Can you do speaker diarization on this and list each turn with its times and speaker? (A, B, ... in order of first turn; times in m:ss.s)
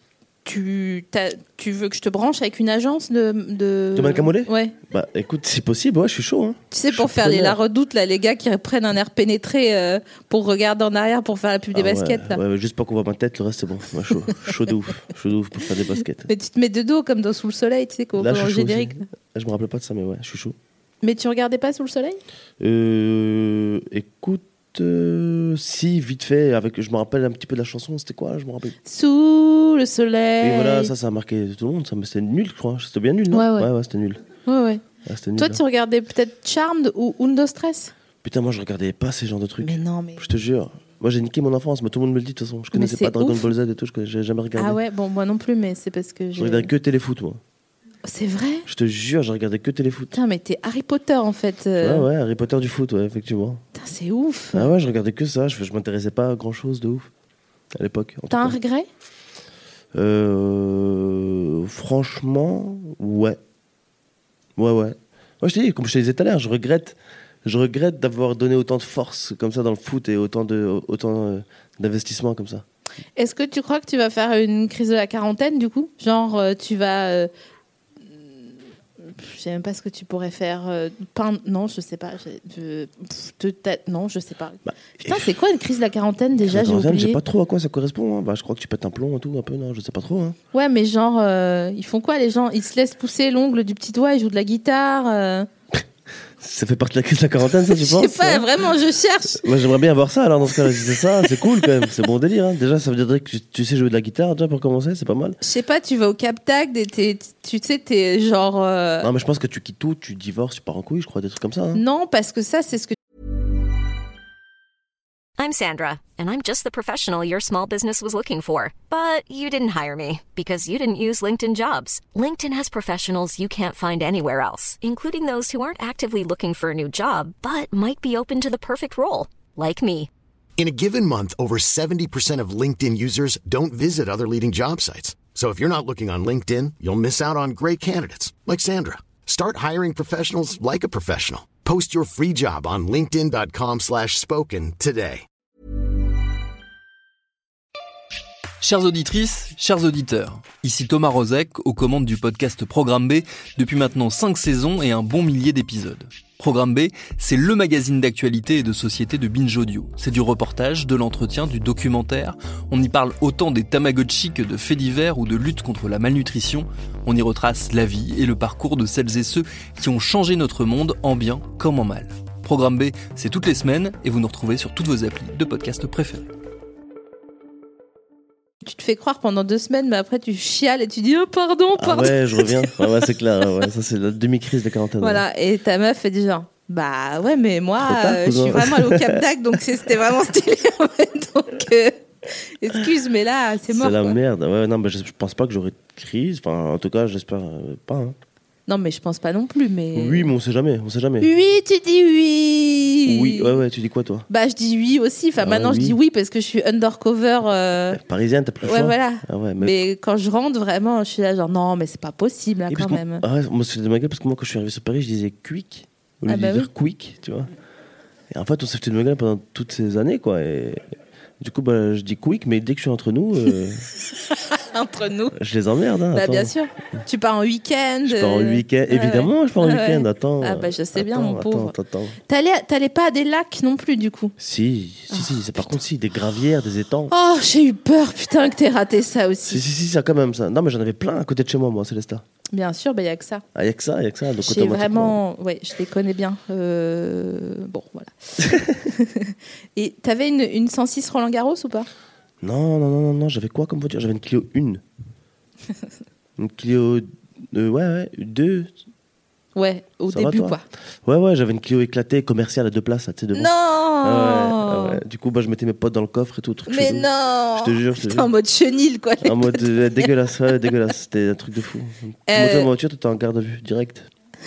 0:00.4-0:04.8 A
0:04.0-0:07.6 B
0:06.7-0:12.4 A
0:11.7-0:16.3 B
0:16.3-0:19.1 A
0:18.2-0:20.6 B
0:21.0-0:22.2 A
0:22.6-0:28.8 B
0:28.9-0:30.9 A
0:30.4-0:34.2 B
0:33.3-0:33.7 A
0:34.5-0:34.8 A
0:35.0-0:35.6 B
0:35.4-0:37.9 A
0:38.2-0:44.8 B
0:39.6-0:40.3 A
0:42.7-0:43.5 A
0:44.6-0:46.7 A
0:46.4-0:47.4 B
0:48.0-0:48.7 A
0:48.7-0:50.2 B
0:50.1-0:52.1 A
0:51.8-0:53.6 B
0:53.8-0:54.7 A
0:54.5-0:57.1 B
0:57.7-0:58.6 B
0:58.3-0:58.9 A
0:59.9-1:03.4 B
1:04.6-1:12.6 B
1:13.2-1:17.3 A
1:19.0-1:27.2 A
1:24.6-1:25.3 B
1:26.4-1:30.4 B
1:30.5-1:35.5 A
1:36.4-1:38.5 B
1:37.7-1:39.4 A
1:39.3-1:45.4 B
1:45.4-1:49.1 A
1:49.0-1:51.8 B
1:51.7-1:53.0 A
1:55.4-2:10.1 C
2:10.6-2:25.3 D
2:28.6-2:56.3 E
2:58.6-3:02.8 A
3:01.8-3:05.2 B
3:05.0-3:14.2 A
3:07.8-3:09.2 B
3:13.7-3:18.2 B
3:18.7-3:20.3 A
3:19.9-3:21.3 B
3:21.2-3:23.6 A
3:23.1-3:24.3 B
3:24.3-3:28.0 A
3:25.4-3:26.0 B
3:27.9-3:29.8 B
3:28.6-3:33.2 A
3:32.7-3:37.5 B
3:36.3-3:36.7 A
3:38.3-3:40.8 B
3:41.4-3:43.8 B
3:44.4-3:45.4 A
3:45.3-3:46.5 B
3:46.1-3:51.8 A
3:48.0-3:52.2 B
3:52.3-3:54.4 A
3:54.4-3:57.1 B
3:55.1-3:55.7 A
3:57.1-3:59.6 A
3:59.5-4:02.2 B
4:02.5-4:03.4 A
4:03.6-4:05.2 B
4:04.4-4:11.9 A
4:12.4-4:14.8 B
4:16.4-4:18.7 B
4:19.6-4:20.6 A
4:20.1-4:28.3 B
4:23.3-4:25.0 A
4:26.7-4:30.1 A
4:29.2-4:34.1 B
4:32.3-4:32.7 A